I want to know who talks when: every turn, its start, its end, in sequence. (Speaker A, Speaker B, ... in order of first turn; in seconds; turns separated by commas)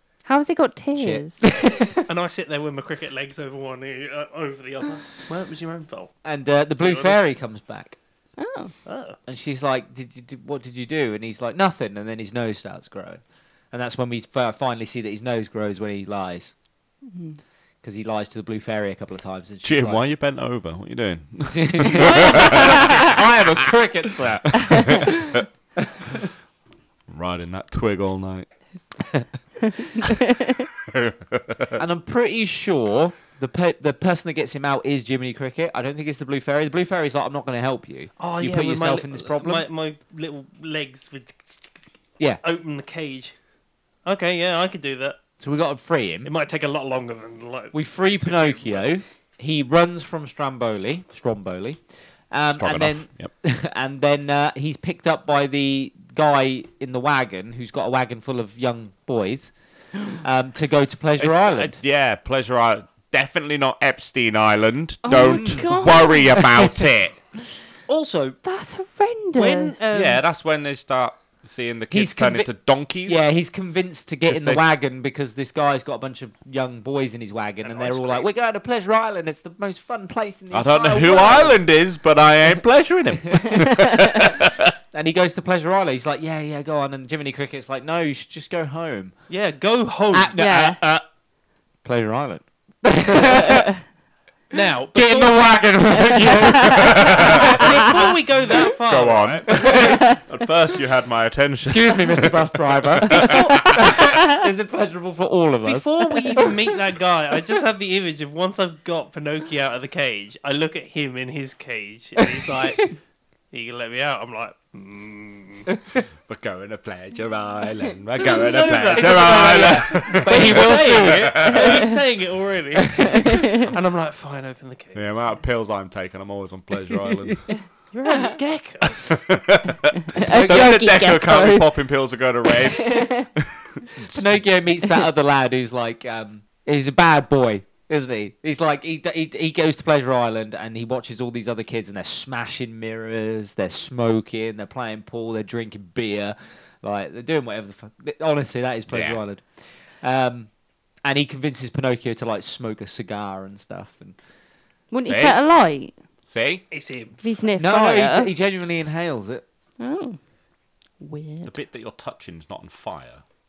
Speaker A: 0.2-1.4, Speaker B: 0.9-2.0, Speaker C: 2.0-6.1, Speaker B: 6.2-8.0, Speaker C: 6.8-7.2, Speaker A: 8.4-8.7, Speaker C: 8.8-9.2, Speaker B: 9.3-13.2, Speaker B: 13.7-16.5, Speaker A: 17.1-17.4, Speaker B: 17.8-20.0, Speaker D: 19.6-23.1, Speaker B: 21.5-25.4, Speaker A: 22.2-23.0, Speaker D: 24.5-25.4, Speaker D: 27.1-28.5, Speaker A: 29.7-30.6, Speaker D: 30.9-31.7, Speaker B: 31.8-39.7, Speaker C: 38.2-41.8, Speaker C: 42.4-43.3, Speaker C: 44.0-45.2, Speaker B: 45.4-46.3, Speaker C: 46.2-48.9, Speaker B: 47.7-51.8, Speaker B: 52.3-59.5, Speaker D: 52.5-53.3, Speaker B: 60.1-61.8, Speaker D: 61.2-67.2, Speaker A: 65.0-66.3, Speaker B: 65.2-65.7, Speaker B: 66.3-66.7, Speaker C: 67.9-68.4, Speaker A: 68.4-69.8, Speaker C: 69.3-70.2, Speaker D: 69.9-73.3, Speaker B: 71.9-72.5, Speaker B: 73.0-81.6, Speaker D: 74.3-74.6, Speaker C: 77.6-78.3, Speaker D: 80.5-84.7, Speaker B: 84.9-89.1, Speaker C: 89.3-90.4, Speaker B: 90.1-91.0, Speaker A: 90.4-90.8, Speaker B: 91.8-93.7, Speaker A: 93.2-93.7, Speaker C: 94.5-95.6, Speaker B: 94.9-97.9, Speaker A: 95.9-98.1, Speaker D: 96.7-97.6, Speaker C: 97.4-99.8, Speaker D: 98.8-103.8, Speaker B: 99.5-100.1, Speaker A: 99.9-100.2, Speaker B: 101.6-106.6, Speaker A: 103.2-104.4, Speaker C: 105.6-112.9, Speaker B: 112.2-112.9, Speaker C: 113.5-115.7, Speaker B: 115.7-116.0, Speaker D: 116.3-121.7, Speaker C: 118.3-125.1, Speaker B: 119.4-121.5, Speaker A: 121.5-121.9, Speaker B: 122.8-123.6, Speaker A: 123.1-123.6, Speaker D: 124.9-127.5, Speaker B: 126.9-127.4, Speaker C: 127.9-129.1, Speaker A: 128.0-128.3, Speaker D: 128.9-134.5, Speaker A: 130.1-131.8, Speaker B: 130.3-130.7, Speaker A: 132.5-133.3, Speaker B: 134.1-150.5, Speaker D: 148.9-149.2, Speaker B: 151.0-154.2, Speaker A: 154.9-155.9, Speaker D: 155.1-155.4, Speaker D: 156.3-156.6, Speaker C: 156.7-157.2, Speaker A: 157.2-158.3, Speaker B: 157.6-159.4, Speaker A: 159.8-160.2, Speaker A: 161.0-161.5, Speaker D: 161.4-163.2